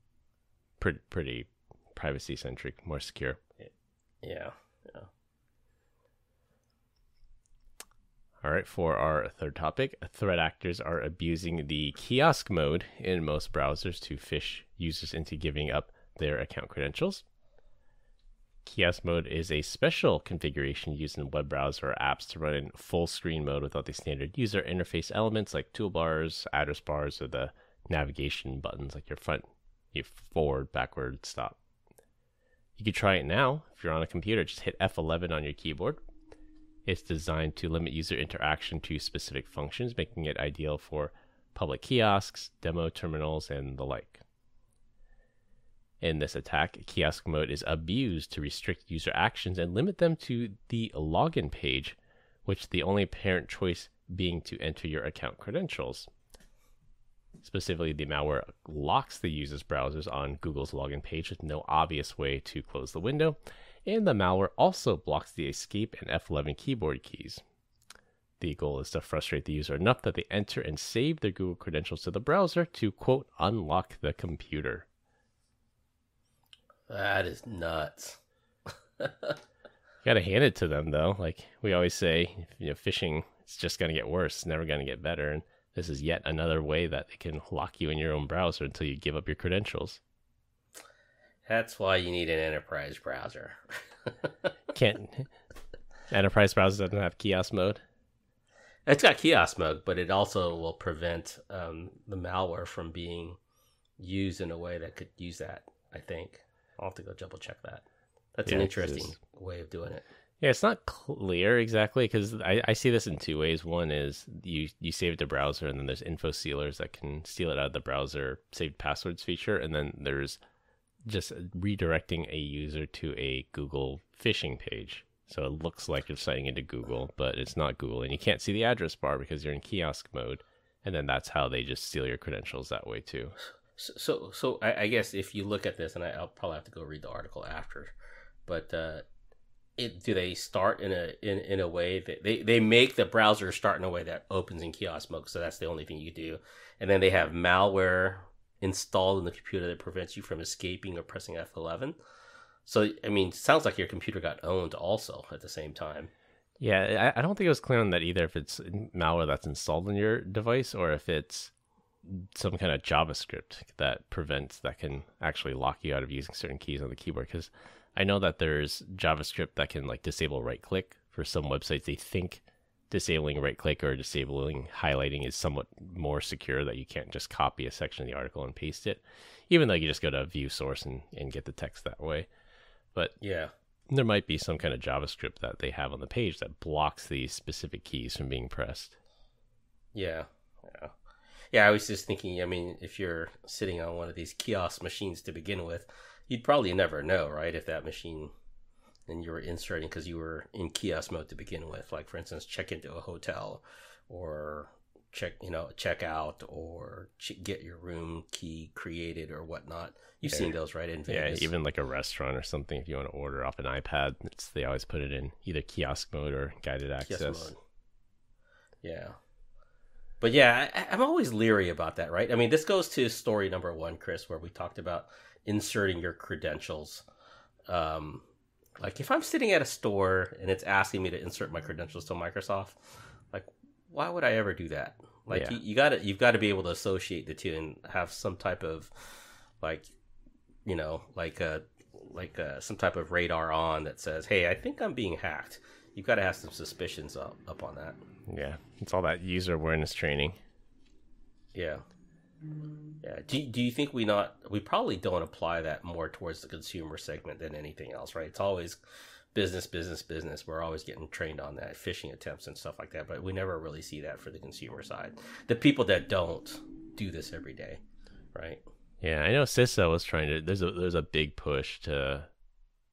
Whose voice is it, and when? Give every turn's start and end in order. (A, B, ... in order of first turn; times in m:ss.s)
0:00.8-0:03.4 A
0:04.2-0:05.1 B
0:08.4-0:17.2 A
0:18.6-0:31.6 A
0:32.8-0:36.0 A
0:36.9-0:44.2 A
0:46.0-0:56.1 A
0:57.4-1:07.4 A
1:08.4-1:14.9 A
1:16.9-1:18.2 B
1:19.0-1:19.4 B
1:20.0-1:30.0 A
1:31.5-1:34.5 B
1:34.7-1:35.3 A
1:36.1-1:37.8 A
1:38.9-1:43.4 B
1:44.0-1:47.8 B
1:48.4-1:50.0 B
1:48.5-1:49.1 A
1:50.4-2:00.4 A
2:01.1-2:13.4 A
2:13.8-2:17.9 B
2:18.5-2:19.0 B
2:19.8-2:32.0 B
2:32.7-2:36.1 B
2:36.6-2:41.5 A
2:42.0-3:02.3 A
3:03.2-3:03.5 B
3:03.9-3:09.0 A
3:09.9-3:10.9 B
3:11.5-3:18.3 B
3:19.1-3:31.5 B
3:30.3-3:30.6 A
3:31.1-3:37.5 A
3:37.1-3:37.6 B
3:38.8-3:39.2 B
3:40.2-3:47.0 B
3:47.7-3:48.2 B
3:48.8-3:59.9 B
3:55.3-3:55.6 A
4:00.7-4:08.0 B
4:08.3-4:10.4 A
4:11.5-4:11.8 B
4:13.0-4:18.8 B
4:19.3-4:27.8 B
4:28.4-4:28.6 B
4:29.0-4:32.3 A